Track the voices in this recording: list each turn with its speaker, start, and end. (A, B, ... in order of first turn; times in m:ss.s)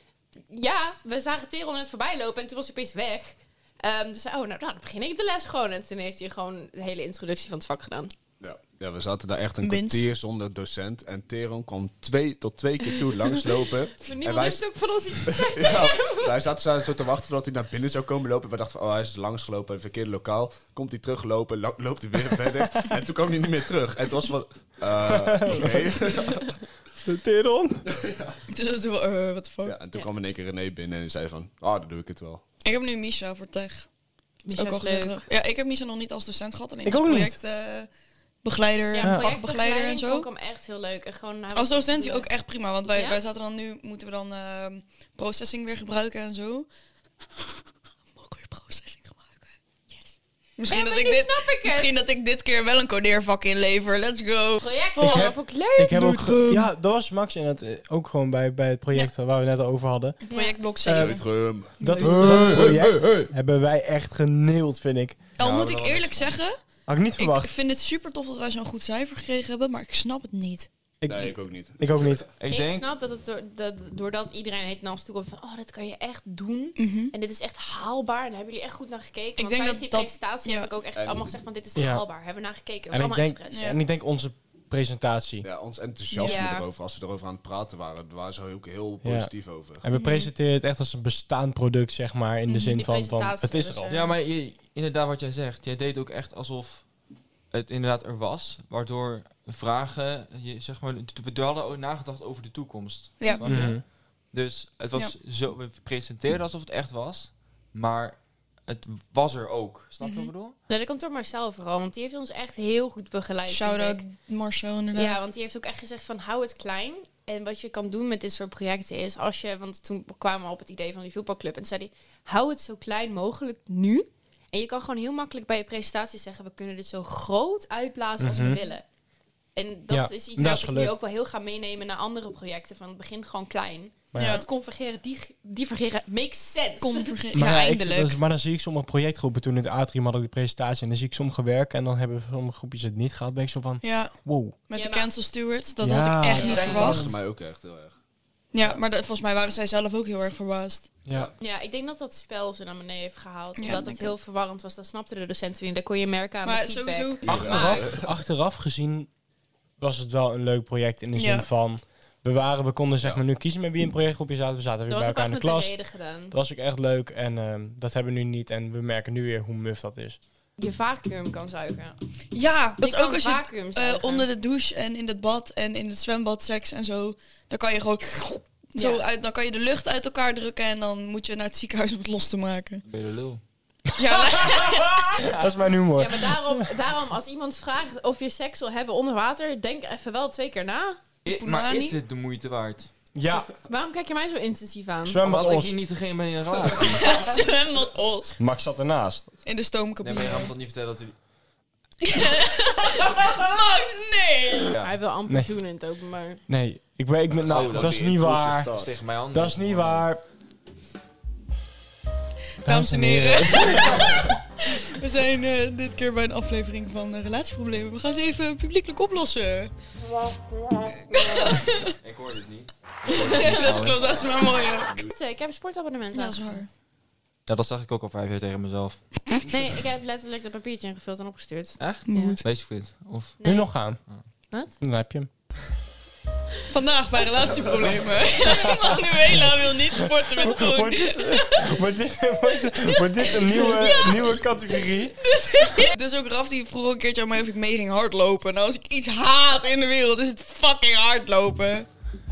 0:00.5-0:08.1 A
0:08.4-0:14.6 B
0:09.6-0:10.1 C
0:14.0-0:16.4 A
0:15.2-0:26.6 B
0:25.1-0:25.9 D
0:27.0-0:27.8 D
0:27.9-0:28.4 B
0:28.5-0:29.7 C
0:29.6-0:32.4 B
0:32.6-0:33.9 C
0:34.4-0:35.2 A
0:34.5-0:37.9 C
0:36.8-0:37.4 D
0:38.4-0:40.3 C
0:38.9-0:42.3 A
0:39.0-0:39.3 D
0:41.5-0:46.7 C
0:42.9-0:43.2 A
0:48.2-0:55.3 C
0:50.7-0:52.0 A
0:54.6-0:56.0 A
0:55.0-1:00.2 D
0:55.9-0:56.7 C
1:00.3-1:02.8 C
1:00.3-1:00.6 A
1:00.8-1:05.2 D
1:00.9-1:03.3 B
1:05.4-1:06.6 C
1:05.4-1:06.4 E
1:06.9-1:07.5 D
1:07.2-1:10.7 C
1:11.0-1:12.2 D
1:11.1-1:12.2 B
1:12.4-1:12.9 E
1:12.5-1:23.7 A
1:16.8-1:17.1 C
1:19.4-1:20.7 C
1:21.0-1:21.3 B
1:21.8-1:22.0 D
1:22.9-1:25.5 D
1:23.5-1:23.8 C
1:25.4-1:29.8 B
1:26.1-1:26.4 C
1:26.2-1:26.6 A
1:29.0-1:33.9 D
1:29.9-1:30.3 C
1:32.5-1:32.8 C
1:32.8-1:34.1 A
1:33.9-1:36.9 E
1:37.5-1:50.6 E
1:43.2-1:43.8 C
1:43.4-1:43.8 D
1:50.0-1:50.3 C
1:50.7-1:54.1 A
1:53.5-1:55.2 C
1:54.9-2:08.8 A
2:08.2-2:08.6 D
2:09.6-2:17.1 A
2:09.9-2:10.9 D
2:14.1-2:14.4 D
2:14.2-2:14.5 C
2:16.8-2:18.2 C
2:17.3-2:24.6 D
2:23.8-2:24.2 C
2:24.7-2:27.1 C
2:24.7-2:25.1 A
2:25.8-2:27.2 D
2:26.4-2:26.8 A
2:26.4-2:28.0 B
2:28.5-2:30.9 C
2:31.4-2:37.9 A
2:33.6-2:34.2 C
2:36.4-2:37.6 C
2:37.2-2:39.1 D
2:37.3-2:38.1 B
2:39.8-2:45.7 D
2:41.1-2:41.5 C
2:44.9-2:46.3 A
2:46.3-2:50.2 D
2:50.6-2:52.0 A
2:52.3-3:02.8 C
2:52.8-2:54.3 A
2:58.8-2:59.0 A
3:02.9-3:03.4 E
3:04.0-3:05.3 C
3:04.0-3:06.6 D
3:06.0-3:11.0 A
3:11.2-3:12.9 E
3:11.3-3:12.0 C
3:13.1-3:13.5 D
3:13.6-3:15.2 A
3:15.0-3:15.7 D
3:15.2-3:17.0 E
3:17.0-3:18.4 C
3:18.4-3:19.3 D
3:19.5-3:20.5 C
3:20.0-3:21.2 E
3:22.0-3:24.7 C
3:24.8-3:26.4 A
3:26.5-3:28.7 D
3:27.4-3:29.0 B
3:27.5-3:30.1 E
3:29.3-3:30.2 D
3:32.6-3:39.7 C
3:32.6-3:34.3 D
3:41.1-3:41.9 C
3:42.0-3:44.3 E
3:43.1-3:45.0 C
3:45.1-3:46.6 A
3:46.1-3:46.7 C
3:47.5-3:49.1 E
3:49.5-3:52.4 A
3:51.8-3:53.4 E
3:52.1-3:52.4 C
3:53.4-3:53.7 A
3:53.4-3:54.0 D
3:54.8-3:55.3 D
3:56.7-4:01.7 C
3:58.6-3:59.0 D
4:00.4-4:05.2 D
4:03.3-4:04.2 C
4:05.2-4:11.9 C